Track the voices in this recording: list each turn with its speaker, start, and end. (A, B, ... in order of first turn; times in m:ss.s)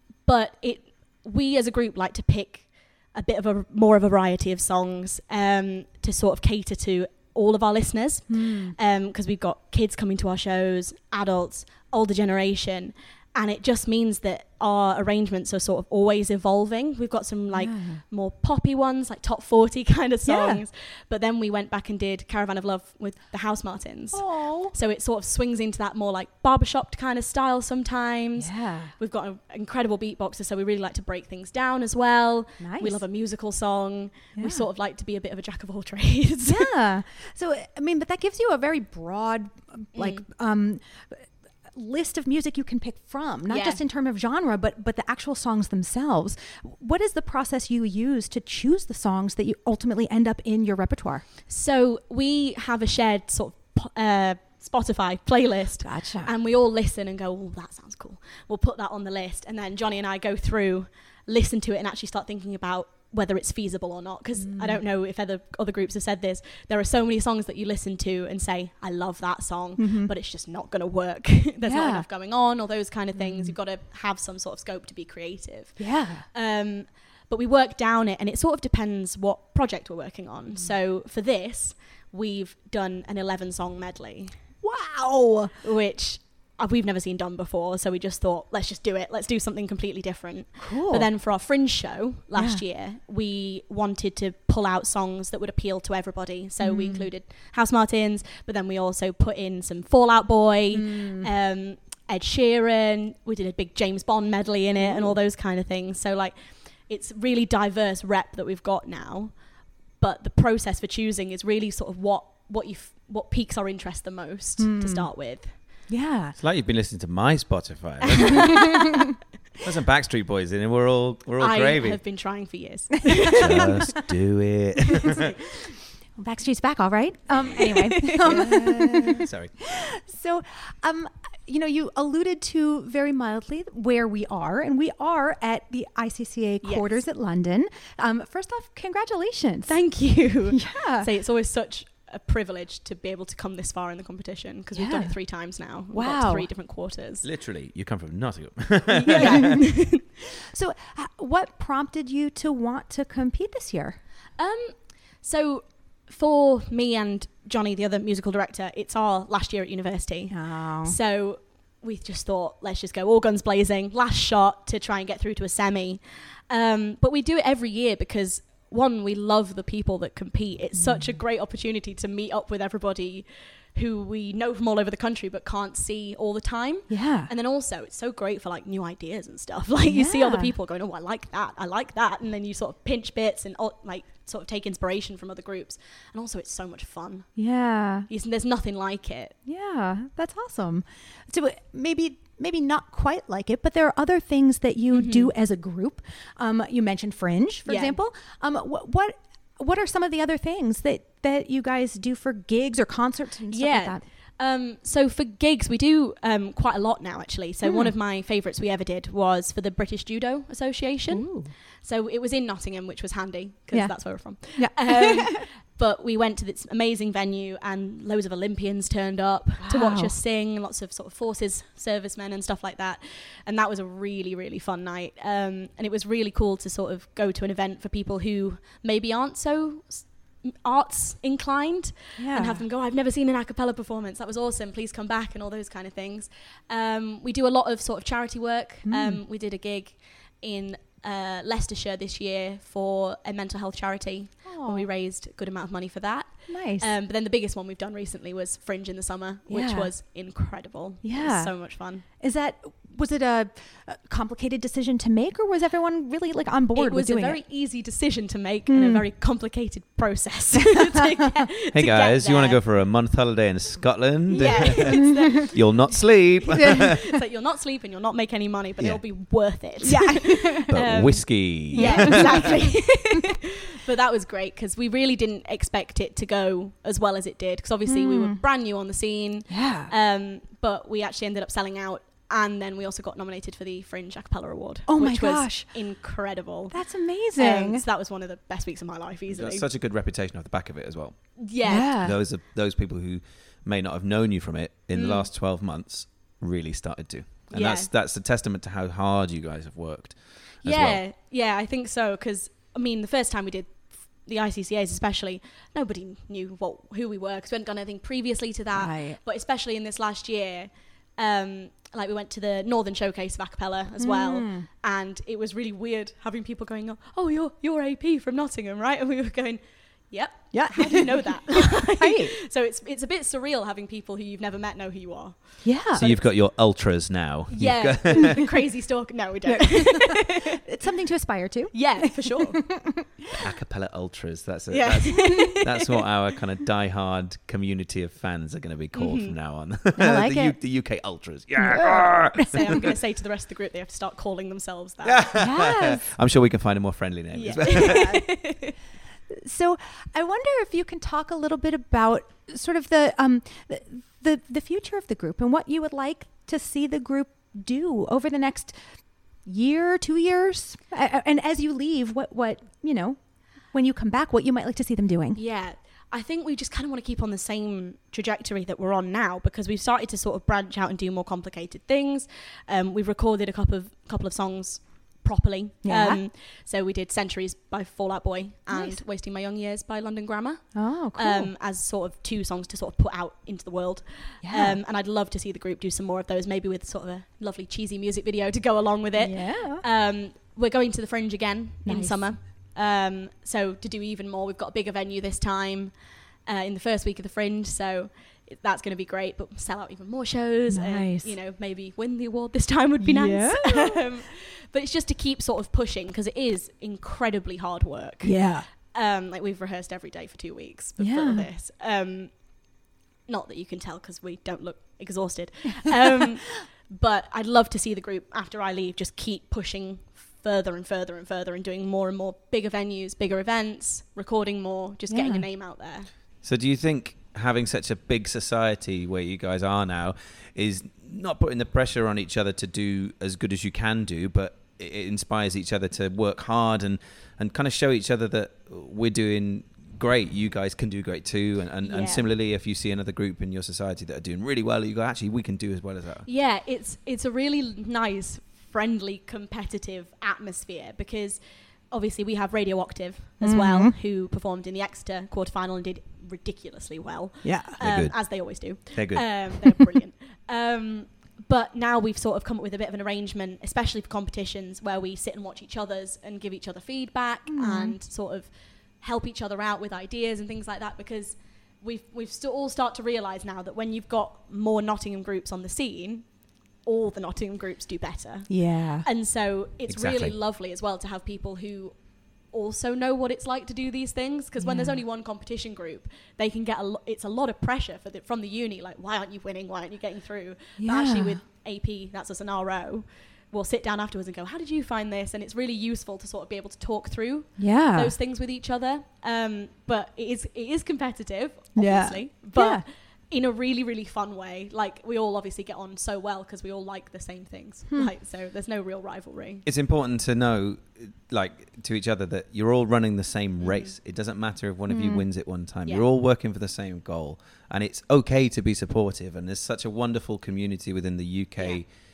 0:00.2-0:36.7 A
0:08.3-0:08.7 B
0:17.5-0:18.0 B
0:20.2-0:20.6 B
0:24.1-0:24.7 B
0:28.4-0:28.9 B
0:32.6-0:33.0 B
0:34.4-0:34.6 B
0:36.4-0:51.2 B
0:40.0-0:40.2 A
0:43.5-0:43.8 A
0:51.5-1:24.4 A
0:55.8-0:56.3 B
1:04.4-1:04.8 B
1:09.8-1:10.1 B
1:11.6-1:12.1 B
1:13.1-1:13.6 B
1:15.8-1:16.2 B
1:24.6-1:25.5 B
1:25.5-1:46.4 A
1:30.6-1:31.1 B
1:32.3-1:32.6 B
1:36.6-1:37.1 B
1:40.7-1:41.3 B
1:44.8-1:45.2 B
1:46.9-1:49.4 A
1:50.0-1:55.6 A
1:54.6-1:55.1 B
1:55.9-1:56.4 B
1:56.4-1:58.7 C
1:58.1-1:58.9 A
1:59.6-2:02.0 C
2:01.4-2:04.0 A
2:03.3-2:05.3 C
2:05.0-2:05.3 A
2:06.2-2:19.8 B
2:07.6-2:09.2 A
2:09.2-2:09.5 C
2:16.6-2:17.0 A
2:19.7-2:27.2 A
2:20.5-2:21.1 B
2:24.7-2:25.2 B
2:25.9-2:26.5 B
2:27.2-2:29.5 C
2:28.9-2:30.0 A
2:29.1-2:29.7 B
2:30.5-2:34.0 B
2:34.4-3:07.3 A
2:40.3-2:41.0 B
2:50.7-2:51.2 B
2:56.9-2:57.3 B
2:59.8-3:00.5 B
3:07.4-3:08.1 B
3:08.1-3:09.3 A
3:09.4-3:24.0 B
3:14.9-3:15.3 A
3:17.6-3:18.0 A
3:23.5-4:12.0 A
3:27.6-3:27.9 B
3:31.1-3:31.5 B
3:33.7-3:35.5 B
3:39.6-3:40.2 B
3:52.2-3:52.6 B
3:58.8-3:59.2 B
4:04.5-4:04.9 B
4:06.5-4:06.9 B
4:09.5-4:09.9 B
4:11.0-4:11.6 B
4:12.2-4:17.4 B
4:16.7-4:22.6 A
4:18.7-4:19.1 B
4:21.7-4:27.0 C
4:24.3-4:46.8 A
4:24.4-4:25.0 B
4:29.9-4:30.6 B
4:30.7-4:32.5 C
4:31.8-4:32.5 B
4:37.8-4:38.4 B
4:39.5-4:39.9 B
4:44.9-4:45.8 B
4:46.7-4:47.8 B
4:47.3-4:49.6 A
4:49.3-4:51.2 C
4:51.4-4:51.9 A
4:51.6-4:52.2 B
4:51.7-5:01.0 C
4:54.9-4:55.3 A
4:57.5-4:57.9 A
5:00.6-5:26.2 A
5:08.7-5:09.2 B
5:14.0-5:14.7 B
5:20.5-5:22.3 B
5:25.6-5:26.1 B
5:26.0-5:28.5 C
5:27.5-5:30.6 A
5:29.4-5:33.1 B
5:31.7-5:32.6 A
5:33.4-5:42.8 C
5:34.7-5:35.9 A
5:38.9-5:39.4 A
5:40.0-5:40.6 B
5:41.6-5:42.9 B
5:42.5-5:45.3 A
5:45.0-5:48.1 C
5:45.4-5:46.0 B
5:47.3-5:48.7 A
5:47.8-5:48.4 B
5:49.3-5:58.8 B
5:59.4-6:03.2 B
6:03.7-6:05.4 B
6:05.3-6:35.9 A
6:15.8-6:16.2 B
6:18.7-6:19.0 B
6:20.7-6:21.5 B
6:24.4-6:24.8 B
6:29.2-6:29.8 B
6:31.8-6:32.3 B
6:36.4-6:52.3 A
6:40.7-6:41.3 B
6:43.0-6:44.0 B
6:48.2-6:48.6 B
6:51.0-6:51.5 B
6:53.3-7:06.1 A
7:05.1-7:05.4 B
7:06.4-7:26.3 C
7:21.8-7:22.3 A
7:26.2-7:31.4 A
7:31.9-7:56.2 A
7:33.4-7:34.0 B
7:37.4-7:37.8 B
7:37.8-7:39.5 C
7:47.5-7:48.0 B
7:56.8-8:01.9 A
7:58.5-7:59.0 B
7:59.9-8:00.3 C
8:02.5-8:29.6 A
8:04.6-8:05.0 B
8:10.8-8:11.4 B
8:17.6-8:18.1 B
8:21.8-8:22.8 B
8:29.6-8:41.9 C
8:33.6-8:34.0 A
8:34.9-8:35.2 B
8:41.6-8:41.8 A